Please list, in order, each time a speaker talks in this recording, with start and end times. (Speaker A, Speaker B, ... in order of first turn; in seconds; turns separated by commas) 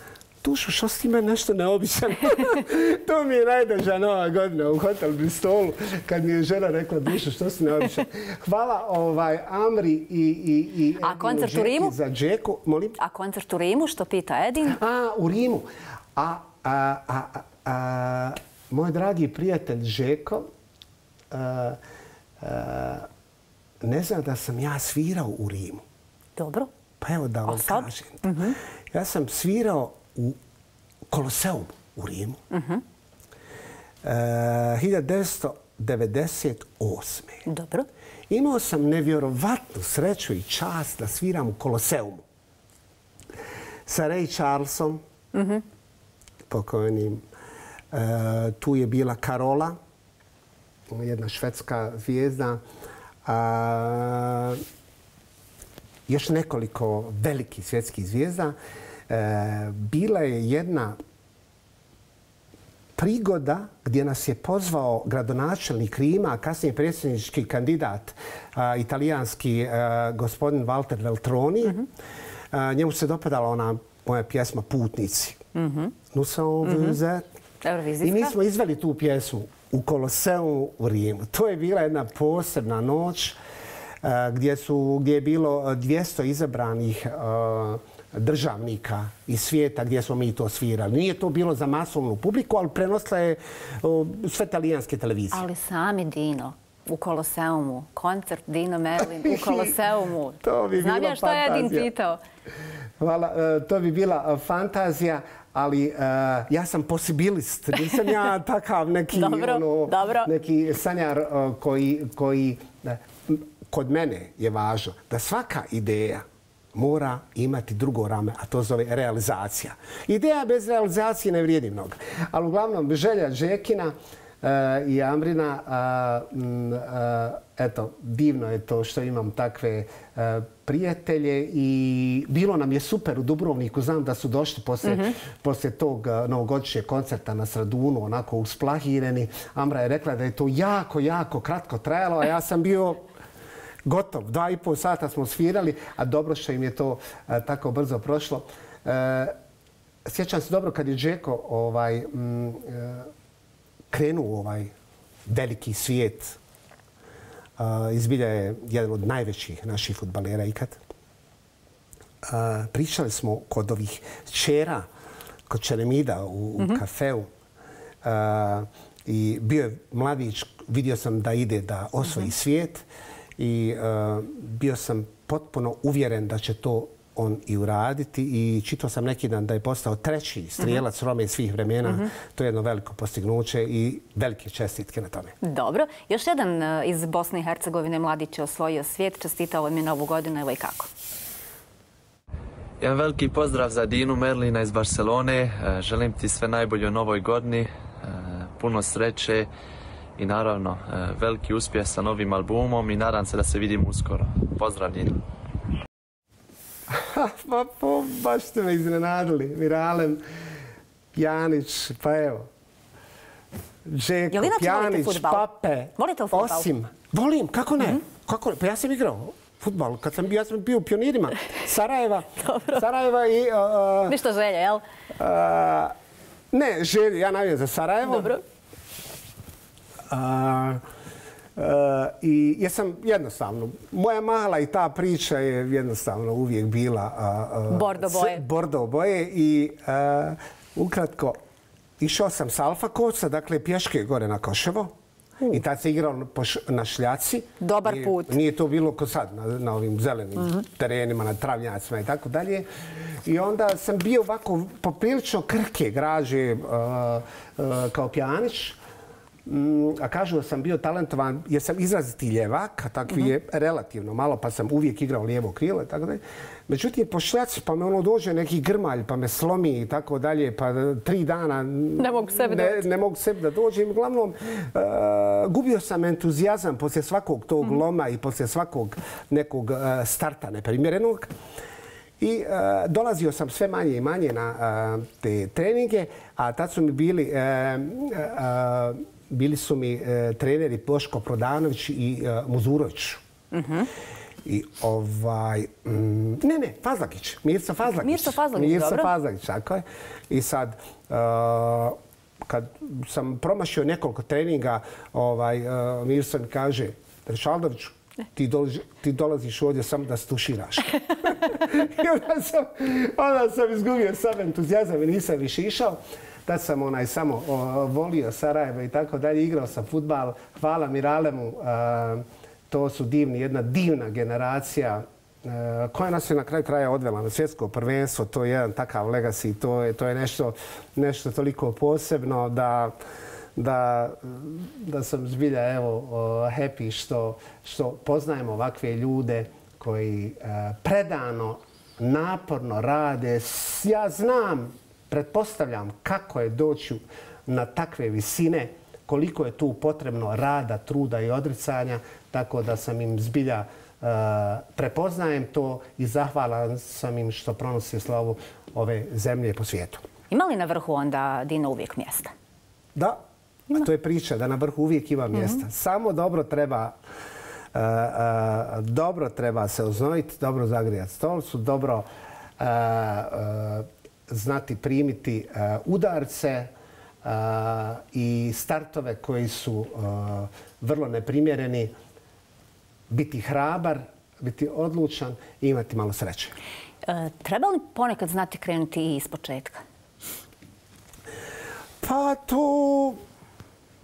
Speaker A: 0.4-13.0, Speaker B: 11.0-11.9, Speaker B: 13.0-14.8, Speaker A: 14.6-20.5, Speaker A: 21.3-21.8, Speaker A: 22.4-23.1, Speaker A: 23.8-25.8, Speaker B: 26.4-26.7, Speaker A: 27.0-30.4, Speaker B: 27.4-28.6, Speaker A: 31.1-32.4, Speaker B: 32.5-32.8, Speaker A: 34.0-37.5, Speaker B: 37.5-37.9, Speaker A: 38.3-42.2, Speaker A: 43.9-45.0, Speaker B: 45.3-45.6, Speaker A: 46.5-47.2, Speaker A: 47.9-49.8, Speaker A: 50.9-52.6, Speaker A: 53.2-54.6, Speaker A: 56.1-58.5, Speaker A: 59.1-61.0, Speaker A: 63.0-71.8, Speaker A: 72.5-75.4, Speaker B: 75.5-75.9, Speaker A: 76.1-77.2, Speaker B: 76.6-77.0, Speaker B: 77.6-78.3, Speaker A: 78.0-83.4, Speaker A: 84.0-95.5, Speaker B: 95.3-102.2, Speaker A: 99.0-99.7, Speaker A: 100.4-101.9, Speaker A: 103.0-143.0, Speaker B: 109.1-110.3, Speaker A: 143.8-149.3, Speaker A: 150.0-153.1, Speaker A: 153.9-154.7, Speaker A: 155.3-156.4, Speaker A: 157.6-160.8, Speaker A: 162.2-164.9, Speaker A: 165.5-167.3, Speaker A: 168.0-172.8, Speaker A: 173.4-185.3, Speaker B: 185.4-190.9, Speaker C: 192.8-199.5, Speaker C: 200.2-205.2, Speaker A: 206.9-210.2, Speaker A: 211.1-212.5, Speaker A: 213.8-224.2, Speaker B: 214.3-216.7, Speaker B: 222.4-222.8, Speaker B: 224.1-224.8, Speaker A: 225.2-225.9, Speaker A: 226.5-228.4, Speaker B: 228.1-228.4, Speaker A: 230.1-230.8, Speaker A: 231.6-241.4, Speaker B: 237.7-238.4, Speaker A: 242.0-244.9, Speaker A: 245.5-252.7, Speaker B: 247.6-248.4, Speaker A: 253.2-258.8, Speaker A: 259.4-281.3, Speaker B: 272.0-272.9, Speaker A: 282.2-293.2, Speaker B: 293.5-293.9, Speaker A: 294.4-332.9, Speaker B: 298.0-299.1, Speaker A: 333.6-360.0, Speaker B: 360.3-362.3, Speaker A: 362.9-366.9, Speaker A: 367.7-372.1, Speaker A: 372.6-376.7, Speaker A: 377.2-381.9, Speaker A: 383.1-386.6, Speaker B: 387.1-389.8, Speaker A: 392.0-393.2